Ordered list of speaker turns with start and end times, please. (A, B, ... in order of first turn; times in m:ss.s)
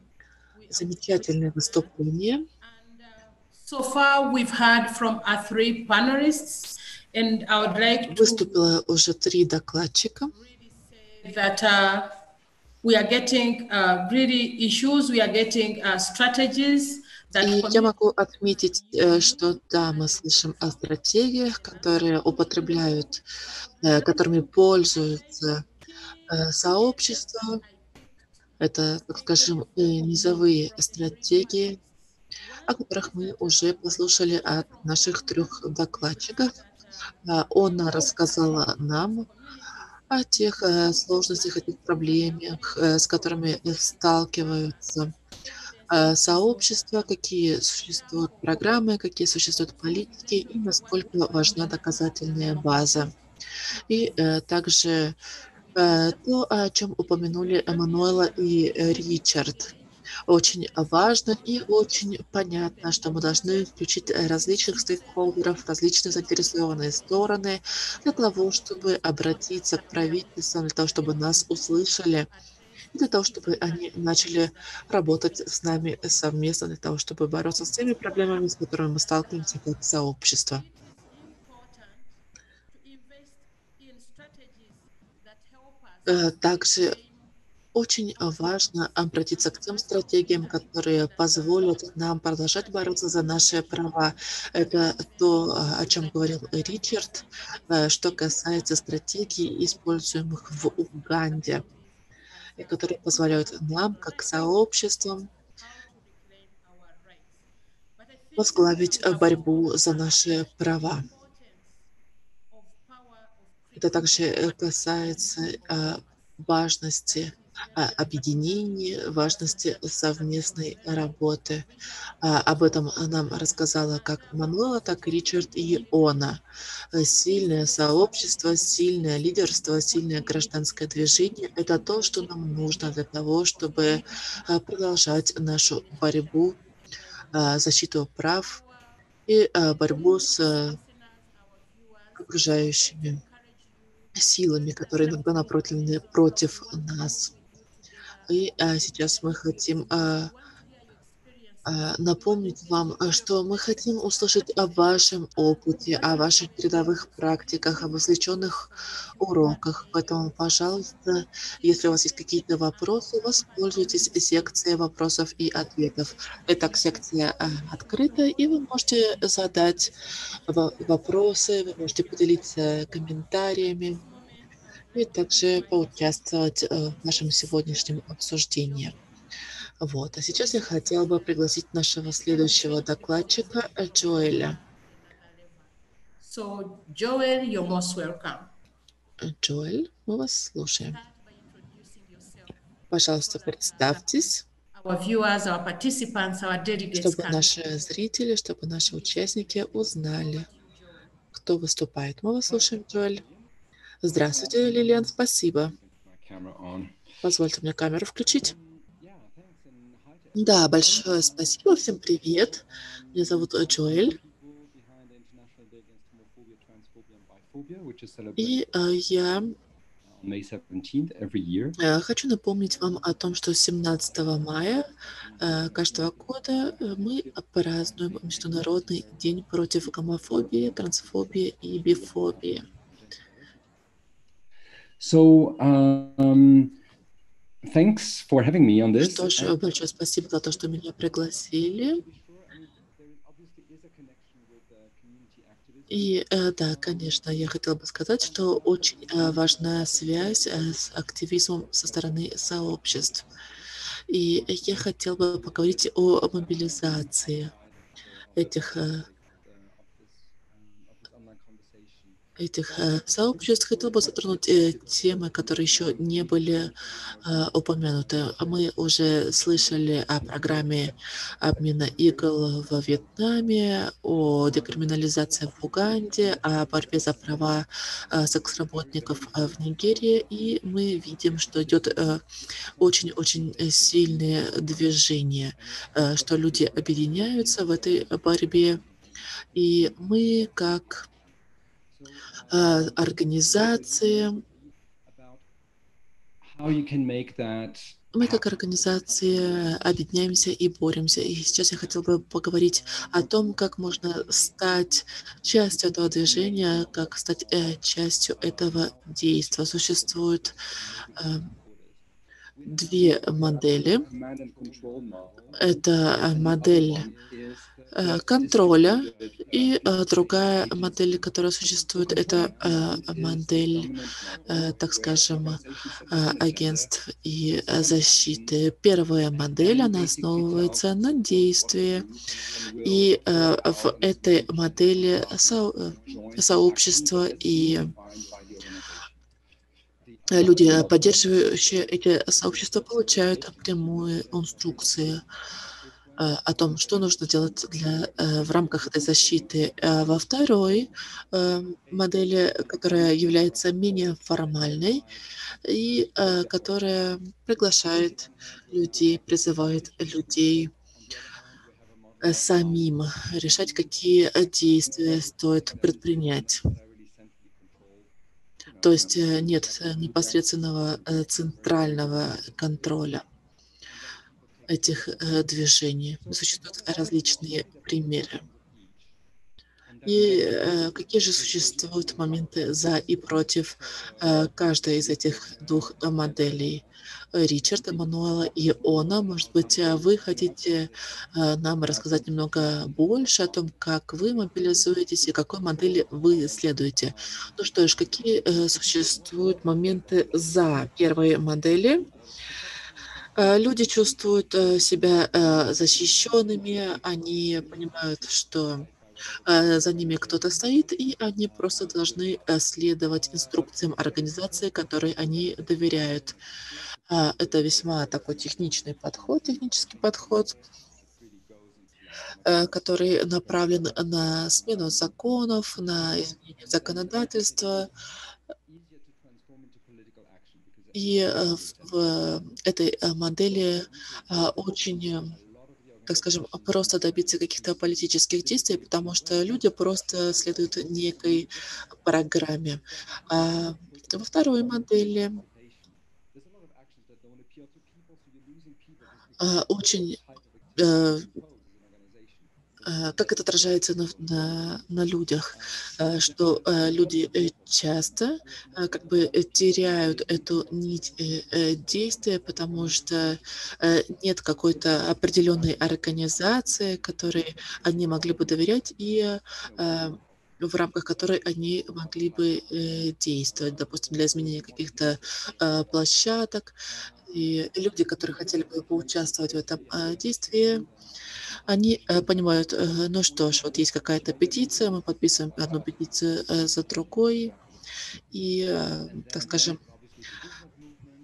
0:00.5-0:02.0 A
0:00.7-0:02.4 B
0:02.6-0:08.5 A
0:08.1-0:10.3 B
0:10.3-0:12.1 A
0:12.8-0:28.0 A
0:17.4-0:23.2 B
0:23.8-0:25.6 B
0:26.3-0:27.6 B
0:28.6-0:31.8 B
0:29.0-0:31.9 A
0:32.4-0:37.0 A
0:32.7-0:36.5 B
0:37.2-0:39.3 B
0:37.6-0:39.6 A
0:40.1-0:45.1 B
0:40.4-0:45.1 A
0:45.7-0:46.9 A
0:45.9-0:53.1 B
0:47.8-0:48.5 A
0:49.8-0:53.0 A
0:53.9-0:55.2 B
0:53.9-0:54.2 A
0:55.3-0:56.2 A
0:55.7-0:59.7 B
0:57.4-0:59.8 A
1:00.3-1:12.3 B
1:01.3-1:01.8 A
1:02.6-1:07.3 A
1:08.0-1:16.3 A
1:12.9-1:20.6 B
1:17.5-1:19.8 A
1:20.5-1:22.2 A
1:22.7-1:27.3 A
1:26.1-1:27.0 B
1:27.7-1:41.6 B
1:28.2-1:47.3 A
1:42.6-1:45.3 B
1:48.0-1:51.7 A
1:48.4-1:51.0 B
1:52.5-1:56.1 A
1:53.8-2:01.7 B
1:57.0-2:06.1 A
2:02.2-2:06.4 B
2:06.9-2:16.6 B
2:06.9-2:17.5 A
2:17.3-2:18.6 B
2:19.3-2:20.8 B
2:19.8-2:44.6 A
2:22.2-2:23.2 B
2:24.1-2:27.3 B
2:28.3-2:30.3 B
2:31.6-2:49.9 B
2:45.3-2:49.9 A
2:50.4-2:52.9 A
2:50.5-2:54.0 B
2:53.9-2:59.0 A
2:54.9-2:58.9 B
2:59.8-3:04.6 B
3:00.3-3:05.7 A
3:06.2-3:08.5 A
3:09.2-3:11.0 B
3:10.9-3:12.5 A
3:12.9-3:14.4 B
3:13.2-3:17.8 A
3:16.9-3:20.5 B
3:19.1-3:21.0 A
3:21.3-3:23.2 B
3:24.0-3:25.8 B
3:24.1-3:25.1 C
3:25.8-3:27.0 C
3:27.2-3:28.5 B
3:28.6-3:32.6 C
3:30.4-3:34.2 B
3:33.8-3:38.6 C
3:38.4-3:39.5 B
3:40.0-3:41.8 C
3:41.8-3:44.9 B
3:45.4-3:52.6 B
3:55.0-3:56.8 C
3:57.6-3:59.6 C
3:59.0-4:02.0 B
4:05.9-4:13.2 B
4:14.1-4:17.5 B
4:18.3-4:19.0 B
4:20.0-4:22.2 C
4:22.4-4:26.7 B
4:27.2-4:42.2 B
4:42.8-4:48.8 B
4:49.5-4:51.0 B
4:52.5-4:54.4 B
4:55.1-4:55.4 C
4:56.4-4:58.4 C
4:58.1-5:10.6 B
5:11.2-5:11.5 B
5:12.7-5:14.1 B
5:13.9-5:15.5 C
5:15.6-5:17.1 B
5:16.3-5:21.1 C
5:17.9-5:23.9 B
5:22.0-5:26.9 C
5:24.5-5:32.1 B
5:27.7-5:28.1 C
5:29.6-5:30.8 C
5:31.8-5:34.1 C
5:32.8-5:37.9 B
5:36.0-5:39.0 C
5:40.1-5:41.3 C
5:40.3-5:45.2 B
5:46.2-5:55.0 B
5:55.6-6:00.7 B
6:02.2-6:06.6 B
6:08.8-6:13.2 B
6:14.7-6:18.4 B
6:17.0-6:17.7 C
6:20.0-6:20.6 C
6:20.0-6:42.1 B
6:43.4-6:48.9 B
6:49.5-6:56.4 B
6:57.1-7:00.5 B
7:02.4-7:07.9 B
7:10.9-7:15.3 B
7:16.1-7:21.5 B
7:22.0-7:25.4 B
7:29.4-7:30.2 B
7:30.8-7:31.3 B
7:32.8-7:56.8 B
7:57.3-8:00.8 B
8:01.7-8:07.5 B
8:08.3-8:09.8 B